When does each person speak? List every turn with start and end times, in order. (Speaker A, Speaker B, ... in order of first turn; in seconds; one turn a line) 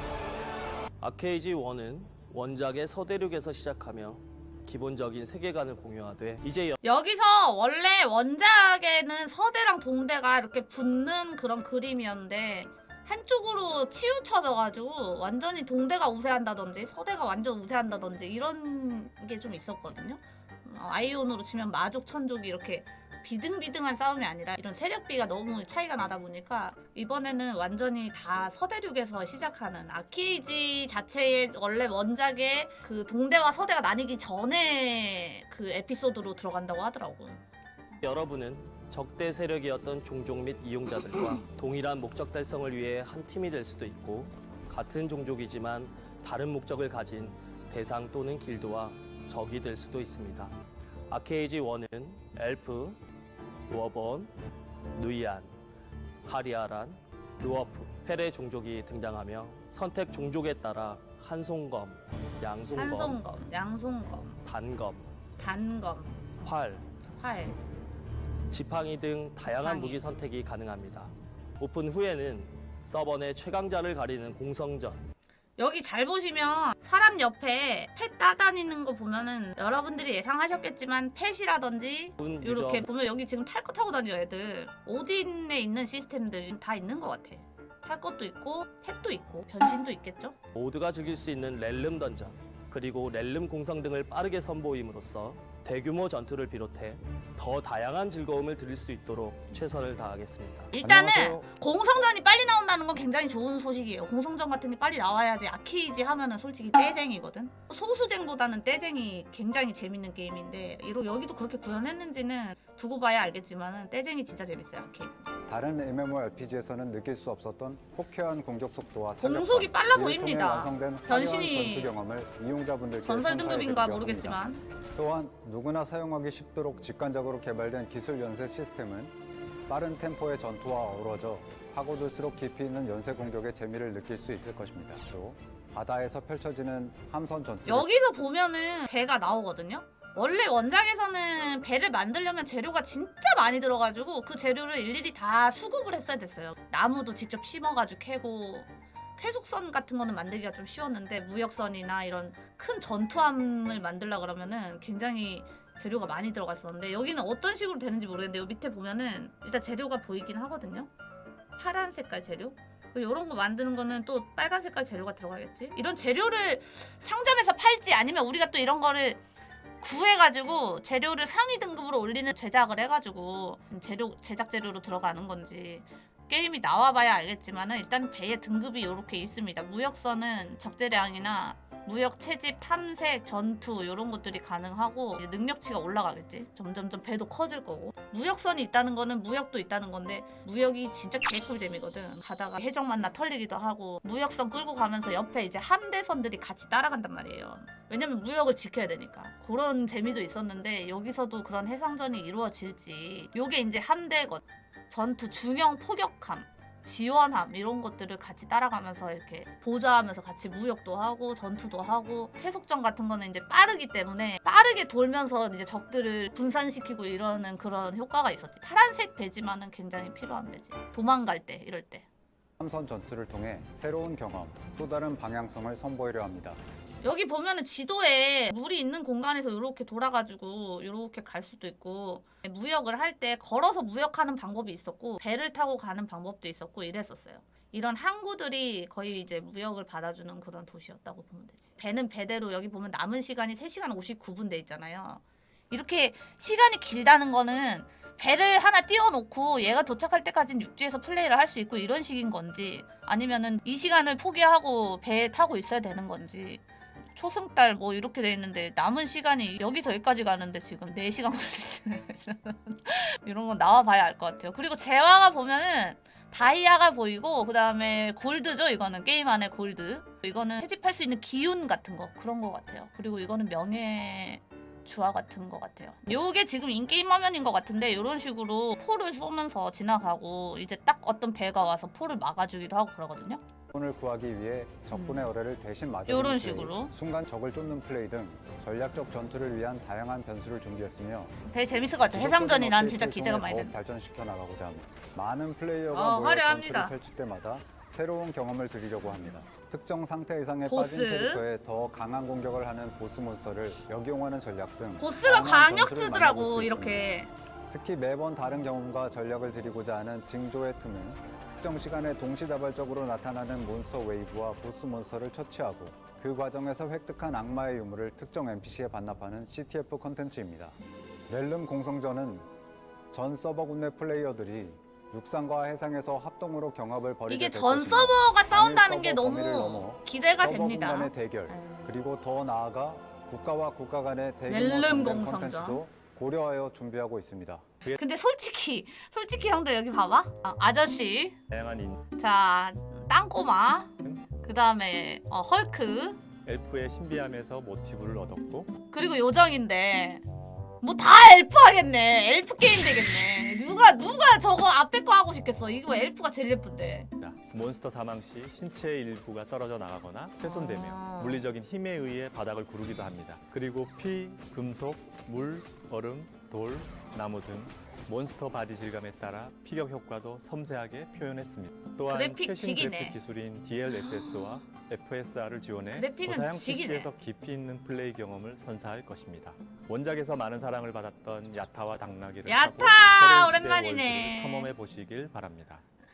Speaker A: 1.0-6.8
Speaker B: 6.8-37.4
Speaker A: 38.0-50.5
Speaker A: 51.1-53.0
Speaker A: 53.7-54.3
Speaker A: 54.9-55.5
Speaker A: 56.2-63.2
Speaker B: 62.7-64.4
Speaker A: 64.4-65.0
Speaker B: 65.4-66.3
Speaker A: 66.4-66.8
Speaker B: 67.1-67.6
Speaker A: 68.5-75.0
Speaker B: 69.5-70.0
Speaker B: 75.6-90.3
Speaker A: 82.2-82.8
Speaker A: 90.5-100.7
Speaker B: 100.7-115.3
Speaker C: 100.8-101.5
Speaker C: 115.5-124.4
Speaker B: 119.2-121.9
Speaker B: 123.0-124.6
Speaker C: 124.9-129.1
Speaker C: 129.7-137.9
Speaker B: 137.7-160.9
Speaker B: 161.6-169.2
Speaker B: 169.8-222.1
Speaker C: 222.6-226.6
Speaker B: 227.0-256.6
Speaker B: 257.1-283.4
Speaker C: 283.7-291.3
Speaker B: 284.9-285.3
Speaker B: 286.1-286.9
Speaker B: 291.4-293.7
Speaker C: 292.1-307.1
Speaker B: 295.9-296.9
Speaker B: 300.6-301.4
Speaker B: 305.0-307.3
Speaker C: 307.7-320.8
Speaker C: 321.3-322.5
Speaker C: 323.1-337.6
Speaker B: 327.3-331.9
Speaker B: 334.5-335.8
Speaker B: 337.9-341.4
Speaker D: 341.5-342.0
Speaker B: 342.1-346.2
Speaker D: 346.4-348.7
Speaker B: 348.9-350.2
Speaker B: 350.8-357.1
Speaker D: 357.2-385.8
Speaker B: 360.4-361.4
Speaker B: 372.1-373.1
Speaker B: 373.9-374.6
Speaker B: 375.9-377.1
Speaker B: 382.4-384.7